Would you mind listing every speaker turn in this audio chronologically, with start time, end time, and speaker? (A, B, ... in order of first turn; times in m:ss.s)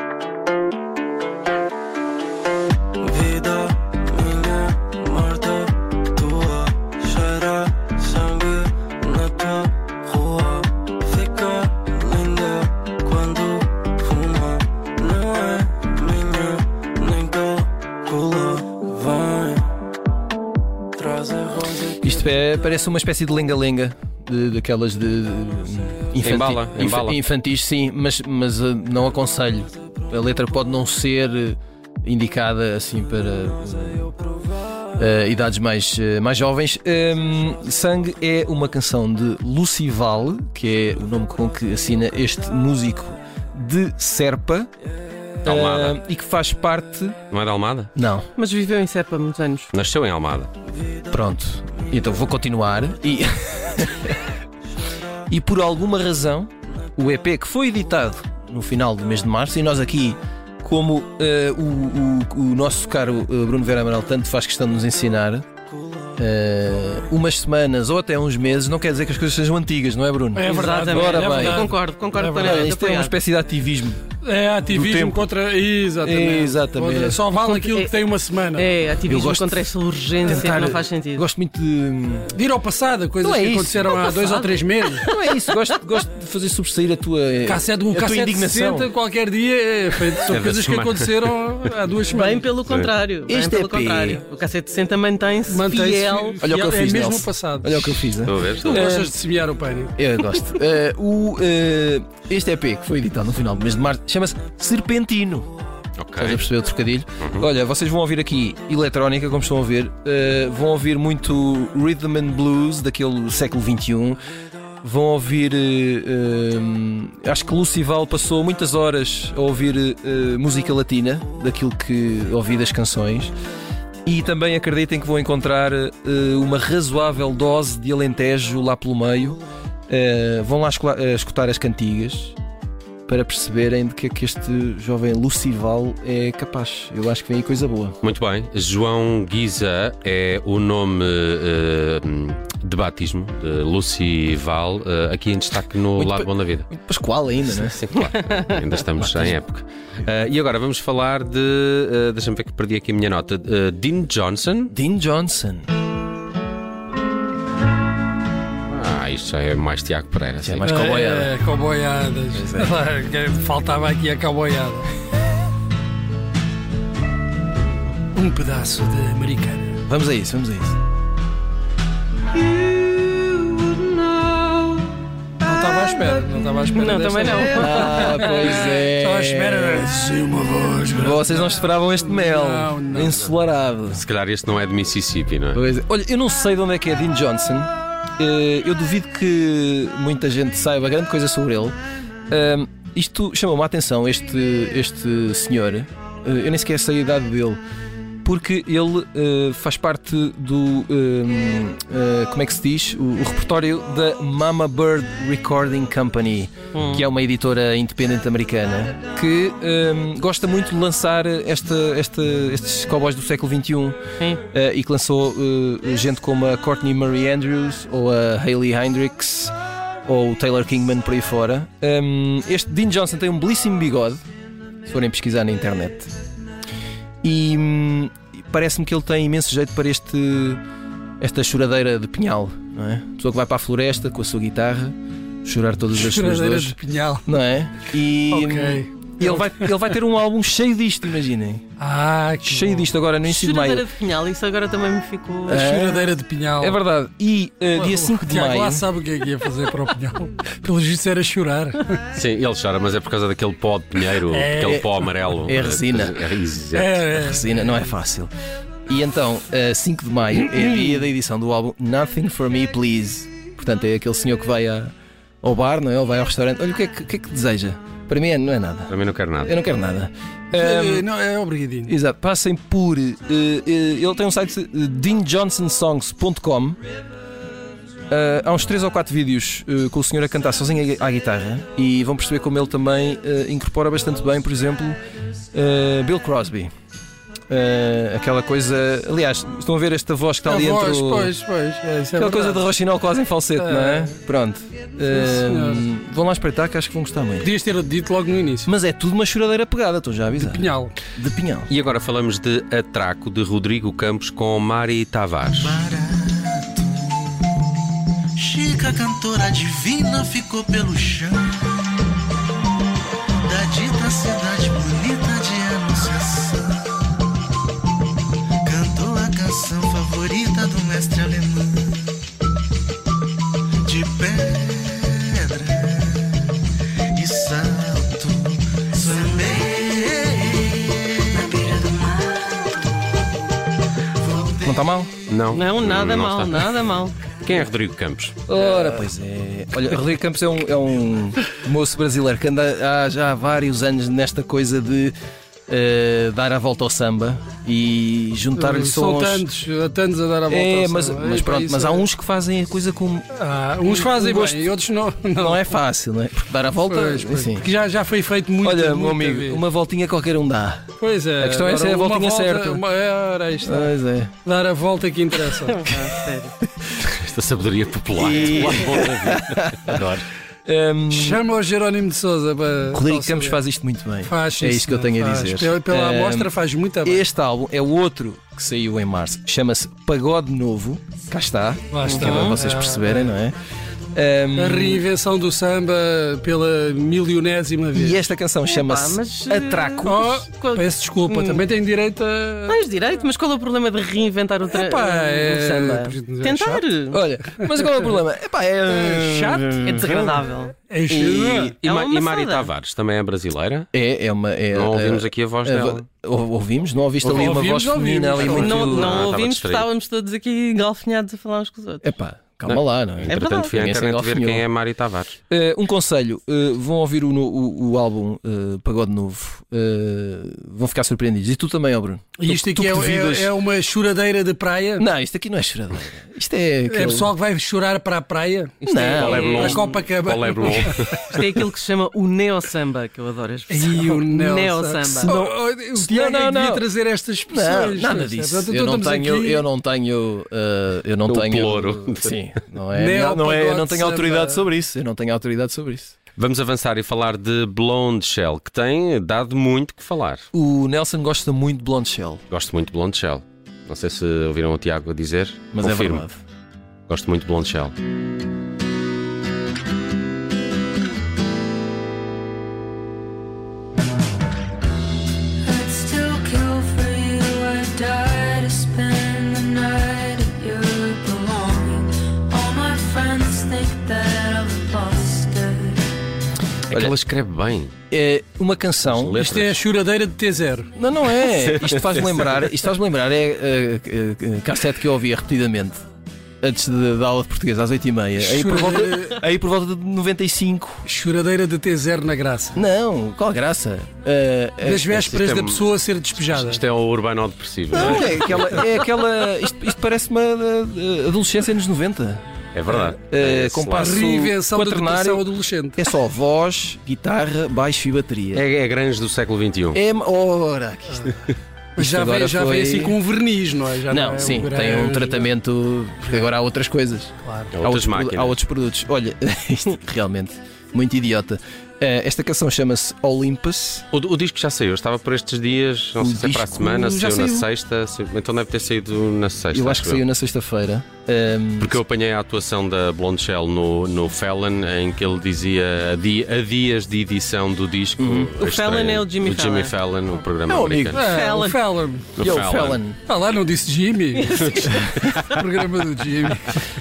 0:03.1-0:03.7 A
0:05.0-0:05.6 A
0:06.3-0:06.6 A
0:07.2-0:09.7 A
0:11.2-0:13.6 A
0:15.0-0:15.6 A
0:17.1-0:17.6 A
0:18.1-0:19.6 A
0:21.8-0:34.1 B
0:26.2-0:27.2 C
0:35.0-0:44.7 B
0:45.4-0:47.2 B
0:45.4-0:46.0 C
0:47.3-0:47.9 C
0:48.0-0:48.3 B
0:48.4-0:49.7 D
0:49.7-0:50.5 C
0:51.1-0:54.2 B
0:55.3-1:05.4 B
1:06.2-1:11.7 B
1:10.4-1:12.7 E
1:10.4-1:13.1 D
1:12.4-1:14.0 B
1:14.2-1:18.8 E
1:14.7-1:15.3 B
1:16.0-1:17.2 B
1:17.3-1:18.0 D
1:18.5-1:21.3 D
1:19.1-1:19.6 B
1:20.2-1:22.3 B
1:22.3-1:25.1 E
1:23.2-1:24.0 B
1:23.9-1:25.1 D
1:25.0-1:28.9 B
1:27.5-1:32.6 E
1:30.2-1:31.2 C
1:32.1-1:36.4 D
1:33.3-1:34.2 B
1:35.5-1:40.0 E
1:36.4-1:39.1 B
1:38.3-1:38.9 C
1:40.0-1:45.5 B
1:46.0-1:46.4 C
1:46.2-1:54.2 B
1:47.2-1:47.5 C
1:54.8-2:03.3 B
2:04.1-2:12.4 B
2:13.1-2:18.0 B
2:18.0-2:26.7 C
2:26.0-2:27.9 B
2:27.6-2:34.7 C
2:29.0-2:29.4 B
2:34.7-2:35.7 B
2:38.7-2:40.8 C
2:40.4-2:41.3 B
2:40.6-2:44.9 E
2:42.4-2:42.7 B
2:48.1-2:49.8 E
2:49.9-2:50.8 B
2:52.6-2:54.6 B
2:55.4-3:03.1 E
2:56.6-2:58.6 D
2:57.5-2:59.9 B
3:00.9-3:04.0 B
3:03.9-3:05.6 C
3:05.5-3:11.8 B
3:12.3-3:17.6 B
3:18.2-3:34.0 B
3:26.7-3:27.0 D
3:34.5-3:39.5 B
3:40.1-3:44.2 B
3:44.9-3:46.1 B
3:47.2-3:50.6 B
3:51.2-4:01.6 B
3:56.0-3:57.3 E
3:58.3-3:59.8 E
4:01.8-4:02.9 E
4:02.4-4:03.8 B
4:03.2-4:05.7 D
4:05.5-4:08.8 B
4:05.6-4:06.8 E
4:07.7-4:12.0 E
4:12.1-4:17.2 C
4:14.3-4:15.3 E
4:14.6-4:14.9 B
4:15.4-4:16.2 B
4:16.7-4:17.6 E
4:17.2-4:18.3 B
4:18.9-4:31.1 B
4:28.9-4:29.5 C
4:30.5-4:31.9 E
4:31.9-4:36.8 B
4:38.1-4:45.0 B
4:45.5-4:46.7 B
4:47.5-4:51.3 B
4:50.4-4:52.6 E
4:52.2-4:57.5 B
4:53.6-4:54.2 E
4:55.1-4:55.9 E
4:57.4-4:58.7 E
4:58.7-5:01.7 B
5:00.4-5:01.0 E
5:01.7-5:05.8 C
5:05.5-5:07.1 F
5:08.4-5:12.0 F
5:13.4-5:17.3 F
5:18.6-5:22.2 F
5:23.8-5:26.5 F
5:27.1-5:31.6 F
5:31.6-5:32.7 G
5:34.2-5:34.8 F
5:34.6-5:35.1 B
5:35.3-5:36.8 C
5:35.5-5:37.2 D
5:37.4-5:38.4 C
5:38.5-5:45.1 B
5:45.7-5:49.5 B
5:48.6-5:52.1 E
5:50.5-5:53.3 B
5:53.4-5:55.7 E
5:53.9-5:54.6 B
5:55.4-5:57.7 B
5:56.9-5:59.6 E
5:58.6-6:02.8 B
6:01.0-6:06.0 E
6:03.6-6:04.3 B
6:05.7-6:06.6 D
6:07.0-6:10.3 C
6:08.1-6:10.0 B
6:10.7-6:11.4 B
6:11.1-6:13.6 E
6:12.9-6:16.5 B
6:14.2-6:17.3 E
6:17.0-6:23.6 B
6:21.9-6:23.4 E
6:22.0-6:22.6 D
6:24.1-6:25.0 B
6:24.6-6:28.3 E
6:28.0-6:30.3 B
6:28.6-6:31.6 D
6:30.0-6:32.8 E
6:32.7-6:37.2 D
6:34.7-6:36.8 E
6:37.1-6:40.4 B
6:38.9-6:40.2 E
6:39.8-6:40.8 D
6:40.8-6:41.8 E
6:41.1-6:41.7 B
6:41.8-6:43.9 C
6:41.8-6:42.7 D
6:43.9-6:49.2 B
6:44.7-6:46.0 C
6:47.2-6:49.2 E
6:48.5-6:52.2 D
6:49.0-6:49.9 C
6:52.0-6:54.7 B
6:52.7-6:55.4 C
6:53.3-6:53.8 D
6:55.5-7:03.5 B
7:02.4-7:05.1 E
7:05.0-7:07.3 B
7:06.9-7:11.2 E
7:08.8-7:10.0 D
7:08.8-7:09.5 B
7:09.2-7:11.5 C
7:11.1-7:15.3 D
7:13.7-7:19.7 E
7:15.3-7:16.8 B
7:17.5-7:26.2 B
7:21.3-7:22.4 C
7:22.9-7:24.7 E
7:26.4-7:30.4 C
7:30.5-7:32.4 B
7:32.5-7:36.3 C
7:35.7-7:36.4 B
7:37.1-7:37.9 C
7:45.6-7:56.0 G
7:56.9-7:57.9 C
7:58.1-7:59.4 B
7:59.0-7:59.8 C
7:59.4-8:00.9 E
8:01.0-8:06.0 B
8:01.7-8:02.5 C
8:06.6-8:11.0 B
8:08.4-8:09.4 E
8:11.1-8:12.8 E
8:12.8-8:15.1 B
8:14.8-8:16.8 E
8:15.2-8:18.9 C
8:17.9-8:22.4 B
8:22.7-8:24.2 C
8:23.3-8:28.6 B
8:24.0-8:26.0 E
8:28.5-8:30.0 C
8:29.9-8:31.4 B
8:32.0-8:35.5 E
8:32.0-8:33.2 B
8:34.1-8:44.1 B
8:37.4-8:37.7 E
8:37.7-8:38.6 C
8:44.1-8:50.2 C
8:46.2-8:47.7 B
8:49.7-8:51.9 B
8:51.8-9:01.4 C
8:58.2-8:58.5 B
8:58.5-9:00.0 D
9:00.7-9:01.3 B
9:01.1-9:02.5 E
9:01.4-9:01.9 D
9:02.4-9:03.0 C
9:02.4-9:03.2 B
9:03.3-9:04.9 E
9:04.4-9:05.4 D
9:04.9-9:05.4 C
9:05.4-9:06.8 E